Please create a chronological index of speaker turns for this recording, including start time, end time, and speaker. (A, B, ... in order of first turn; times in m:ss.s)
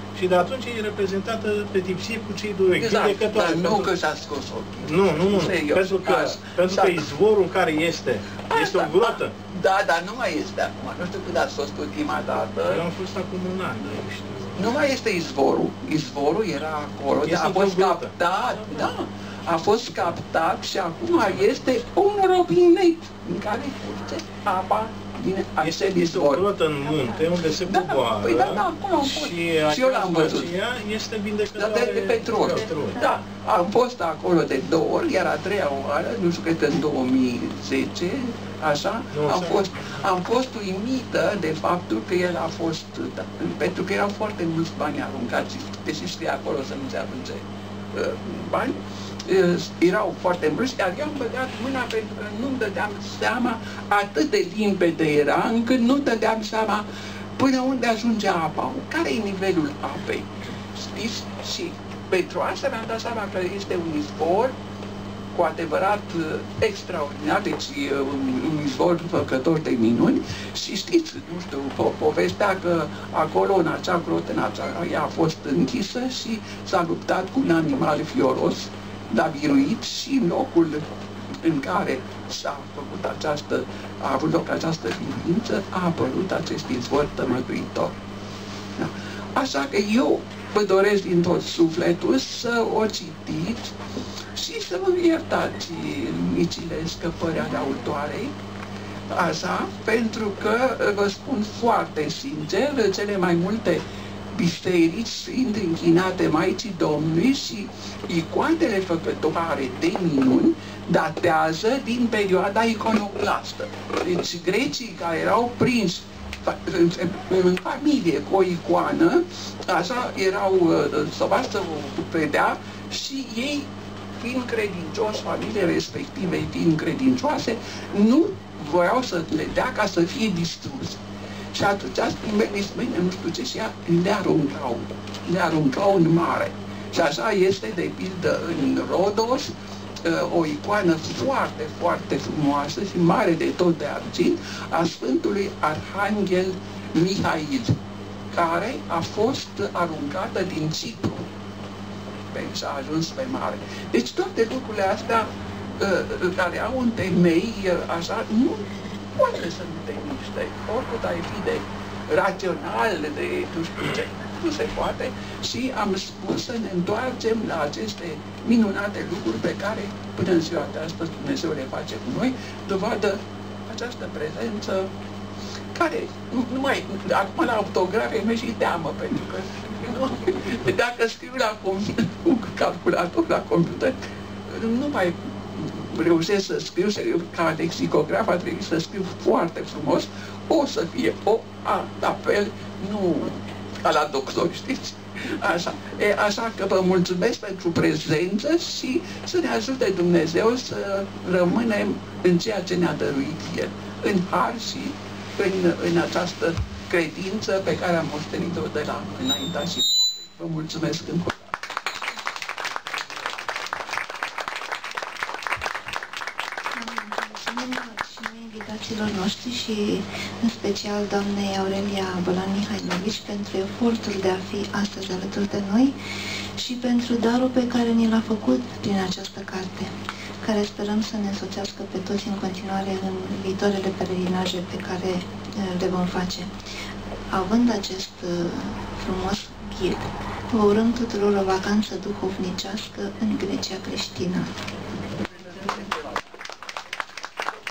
0:00.2-0:03.9 A
0:02.8-0:07.0 B
0:04.8-0:09.4 A
0:08.5-0:12.8 B
0:12.6-0:14.8 A
0:14.6-0:26.5 B
0:17.2-0:18.2 A
0:25.6-0:33.0 A
0:27.6-0:30.5 B
0:31.6-0:56.8 B
0:39.1-0:40.0 A
0:57.4-1:04.5 B
1:05.3-1:20.8 B
1:21.4-1:27.9 B
1:28.8-1:33.8 B
1:34.4-1:38.3 B
1:39.1-1:43.8 B
1:44.3-2:11.0 B
2:11.5-2:19.5 B
2:20.0-2:27.8 B
2:28.3-2:31.3 B
2:32.3-2:35.3 B
2:35.8-2:54.9 B
2:55.7-3:04.0 B
3:04.5-3:31.5 B
3:36.7-3:46.0 C
3:46.6-3:56.6 C
3:57.3-4:04.5 C
4:05.6-4:06.0 B